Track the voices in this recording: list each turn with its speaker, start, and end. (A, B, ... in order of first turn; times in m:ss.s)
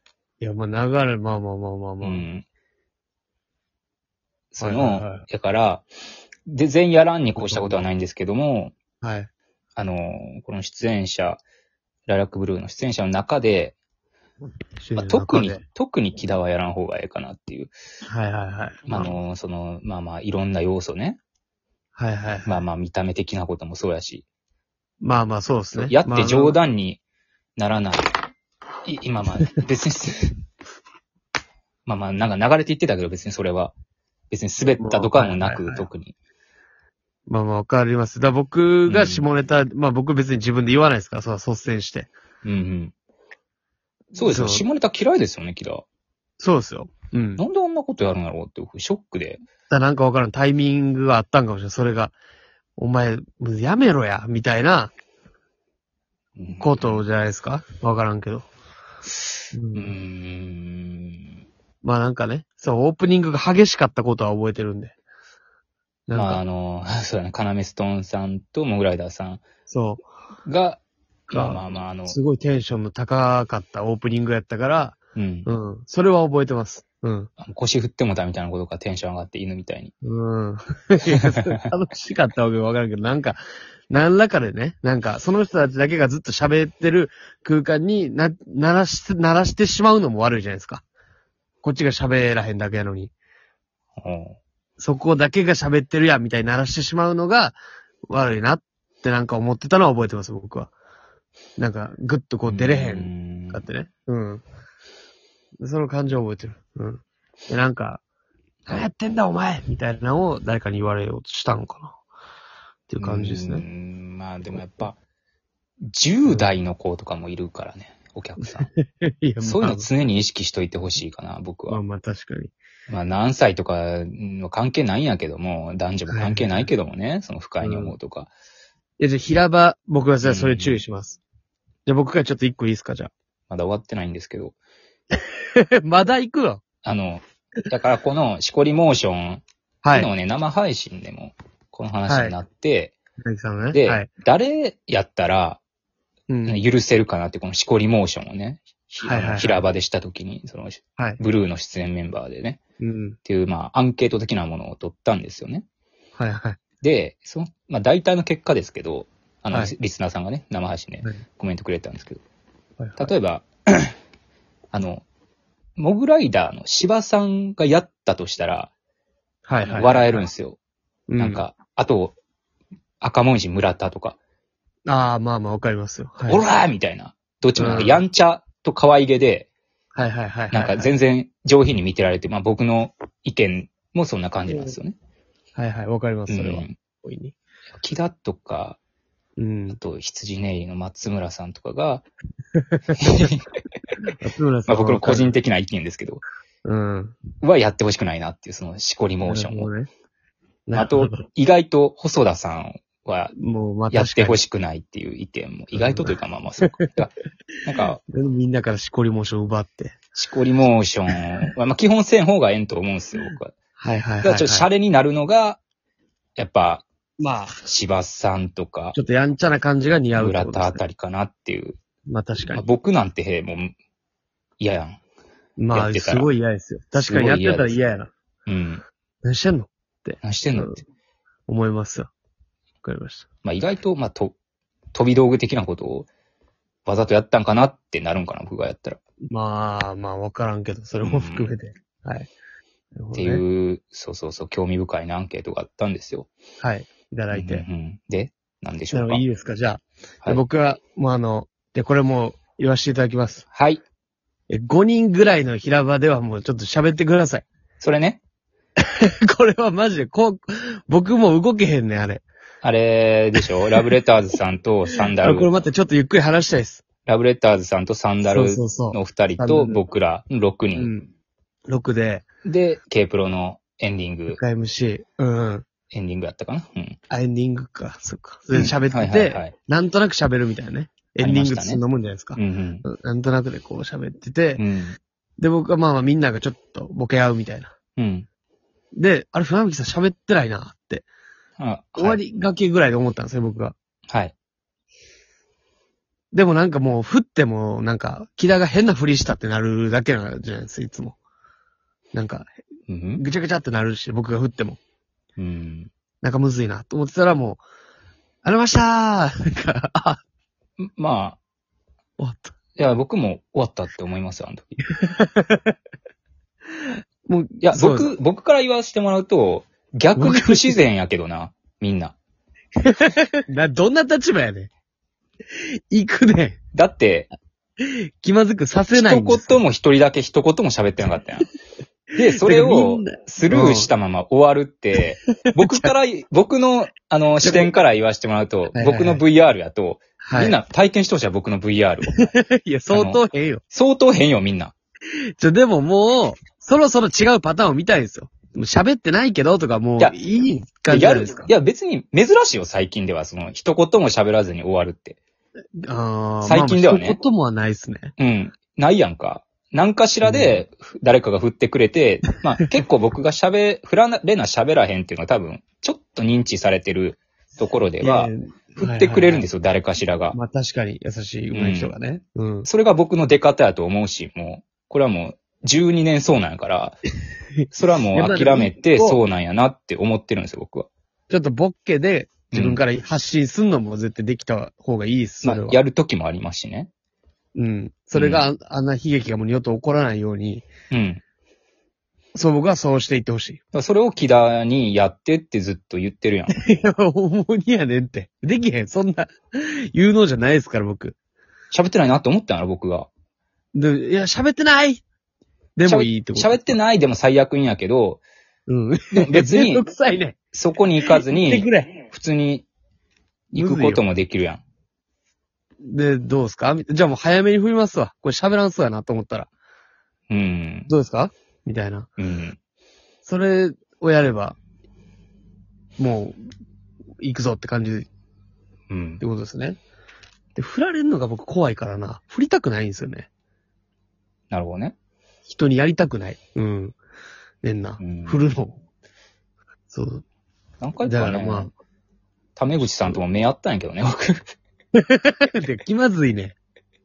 0:00.4-0:02.2 A
0:02.0-0:02.4 B
0:04.5-0:05.8 B
0:04.6-0:05.2 A
0:06.5-0:08.7 B
0:07.4-0:07.8 A
0:09.0-0:09.3 A
0:09.8-0:11.4 B
0:12.1-0:13.7 B
0:14.8-0:15.6 A
0:14.9-0:17.7 B
0:18.1-0:19.1 A
0:18.8-0:21.2 B
0:21.9-0:22.6 A
0:22.4-0:24.2 B
0:25.0-0:26.6 A
0:25.7-0:27.0 B
0:27.6-0:28.1 B
0:28.8-0:30.3 B
0:31.8-0:33.7 B
0:34.3-0:36.1 B
0:34.8-0:35.9 A
0:37.3-0:42.1 A
0:38.9-0:39.2 B
0:42.4-0:42.9 B
0:44.1-0:45.8 B
0:44.2-0:44.6 A
0:46.4-0:47.4 A
0:47.4-0:49.4 B
0:49.7-0:52.2 A
0:52.8-0:54.9 A
0:56.4-0:57.0 B
0:56.6-0:58.5 A
0:59.5-1:00.0 A
0:59.7-1:01.3 B
1:01.8-1:04.9 A
1:06.1-1:06.4 A
1:06.1-1:09.4 B
1:09.7-1:10.0 A
1:10.4-1:12.2 B
1:11.3-1:17.3 A
1:15.2-1:15.5 B
1:17.4-1:19.9 B
1:20.0-1:30.8 A
1:31.6-1:33.1 A
1:34.0-1:34.4 B
1:34.8-1:37.6 A
1:38.1-1:40.7 A
1:41.6-1:44.4 A
1:42.5-1:43.6 B
1:45.6-1:48.0 A
1:48.7-1:52.0 A
1:52.9-1:53.6 A
1:53.0-1:55.0 B
1:55.8-1:58.7 B
1:58.4-1:59.9 A
1:59.4-2:01.8 B
2:01.7-2:02.5 A
2:02.9-2:08.3 B
2:06.1-2:06.7 A
2:07.6-2:08.0 A
2:09.0-2:11.2 A
2:10.2-2:10.8 B
2:11.8-2:13.1 A
2:13.5-2:14.5 B
2:15.5-2:16.6 A
2:16.8-2:22.9 B
2:19.8-2:20.1 A
2:22.1-2:22.4 A
2:23.2-2:24.1 A
2:23.7-2:25.6 B
2:26.3-2:26.6 A
2:26.4-2:32.6 B
2:29.0-2:29.7 A
2:32.8-2:33.2 A
2:33.2-2:35.6 B
2:36.2-2:36.6 A
2:36.8-2:42.2 B
2:42.8-2:43.1 A
2:43.0-2:43.9 B
2:44.7-2:45.0 B
2:45.8-2:48.7 B
2:49.4-2:50.2 A
2:49.6-2:50.6 B
2:51.1-2:51.4 A
2:51.2-2:52.1 B
2:53.0-2:54.2 B
2:54.9-2:56.4 A
2:56.2-2:59.5 B
2:57.6-2:58.0 A
2:59.9-3:00.9 A
3:00.5-3:04.9 B
3:05.6-3:07.4 A
3:06.3-3:06.7 B
3:07.8-3:08.8 B
3:09.4-3:09.8 A
3:09.7-3:12.0 B
3:12.5-3:13.3 A
3:13.0-3:13.4 B
3:14.2-3:15.3 A
3:14.7-3:16.2 B
3:16.6-3:17.2 A
3:17.4-3:19.7 B
3:19.2-3:19.9 A
3:20.7-3:21.2 A
3:20.7-3:23.3 B
3:23.4-3:24.4 A
3:23.9-3:27.1 B
3:25.7-3:26.8 A
3:27.6-3:28.0 B
3:28.1-3:30.0 A
3:30.1-3:33.5 B
3:33.8-3:34.7 A
3:34.2-3:35.6 B
3:36.4-3:36.8 B
3:37.2-3:37.6 A
3:37.6-3:39.0 B
3:38.9-3:40.8 A
3:40.1-3:41.8 B
3:42.1-3:42.6 A
3:42.5-3:43.7 B
3:44.6-3:45.0 B
3:45.6-3:48.1 A
3:45.7-3:46.3 B
3:47.0-3:47.8 B
3:48.4-3:48.8 B
3:49.2-3:50.8 A
3:50.2-3:50.8 B
3:51.5-3:52.1 A
3:52.8-3:53.3 A
3:53.4-3:54.3 B
3:54.9-3:56.1 B
3:56.8-3:59.0 B
3:59.3-4:02.3 A
4:01.0-4:01.5 B
4:03.0-4:03.4 A
4:03.1-4:06.3 B
4:06.6-4:07.6 A
4:07.3-4:09.2 B
4:08.9-4:13.4 A
4:13.5-4:13.8 B
4:14.5-4:17.4 A
4:17.8-4:18.2 B
4:19.0-4:22.2 A
4:22.6-4:25.5 B
4:23.4-4:23.9 A
4:25.2-4:26.8 A
4:27.0-4:30.9 B
4:28.2-4:29.8 A
4:30.7-4:31.1 A
4:31.7-4:32.2 A
4:32.4-4:34.4 B
4:34.3-4:35.6 A
4:35.9-4:37.0 B
4:37.1-4:44.6 A
4:38.5-4:39.5 B
4:41.2-4:41.8 B
4:42.3-4:42.8 B
4:44.6-4:45.0 B
4:45.4-4:47.7 A
4:48.0-4:48.2 B
4:48.9-4:51.0 A
4:51.6-4:52.2 B
4:52.0-4:53.7 A
4:56.3-5:01.2 A
5:02.1-5:02.5 A
5:02.9-5:03.2 B
5:03.2-5:04.8 A
5:05.4-5:05.9 B
5:06.2-5:07.6 A
5:08.4-5:10.2 A
5:10.8-5:11.4 B
5:12.2-5:12.5 A
5:12.8-5:14.8 B
5:14.9-5:15.7 A
5:17.2-5:18.1 A
5:17.6-5:22.1 B
5:20.1-5:20.8 A
5:22.8-5:24.7 A
5:25.9-5:26.6 A
5:26.7-5:27.3 B
5:27.8-5:29.6 A
5:28.9-5:31.5 B
5:32.2-5:42.2 B
5:32.4-5:33.9 A
5:37.4-5:37.7 A
5:38.7-5:39.2 A
5:40.2-5:40.6 A
5:42.1-5:43.6 A
5:42.9-5:44.7 B
5:45.4-5:51.5 A
5:50.9-5:55.2 B
5:55.8-5:58.1 A
5:56.4-5:57.2 B
5:58.2-6:10.4 B
6:00.2-6:00.6 A
6:08.0-6:09.5 A
6:10.3-6:12.7 A
6:11.5-6:11.9 B
6:12.6-6:17.0 B
6:17.7-6:20.9 B
6:18.1-6:19.2 A
6:21.3-6:25.8 A
6:22.5-6:22.8 B
6:25.4-6:26.9 B
6:27.5-6:30.7 A
6:28.1-6:28.4 B
6:30.9-6:31.2 B
6:32.4-6:33.6 A
6:33.7-6:36.5 B
6:36.5-6:41.2 A
6:41.7-6:43.1 B
6:43.7-6:45.0 A
6:45.8-6:46.6 A
6:45.8-6:48.2 B
6:48.7-6:50.4 A
6:49.1-6:49.8 B
6:50.5-6:52.6 B
6:51.0-6:52.0 A
6:53.5-6:54.0 A
6:53.5-6:54.6 B
6:55.8-6:59.5 A
7:00.3-7:00.9 B
7:00.9-7:02.1 A
7:02.2-7:02.6 B
7:03.2-7:04.6 A
7:06.0-7:06.4 A
7:07.2-7:08.1 A
7:08.9-7:09.2 B
7:09.2-7:09.8 A
7:10.6-7:13.3 A
7:14.5-7:15.0 B
7:15.4-7:17.0 A
7:17.6-7:18.8 A
7:18.0-7:18.5 B
7:19.9-7:20.2 A
7:20.8-7:21.7 B
7:21.0-7:21.7 A
7:22.6-7:24.5 B
7:25.0-7:26.5 A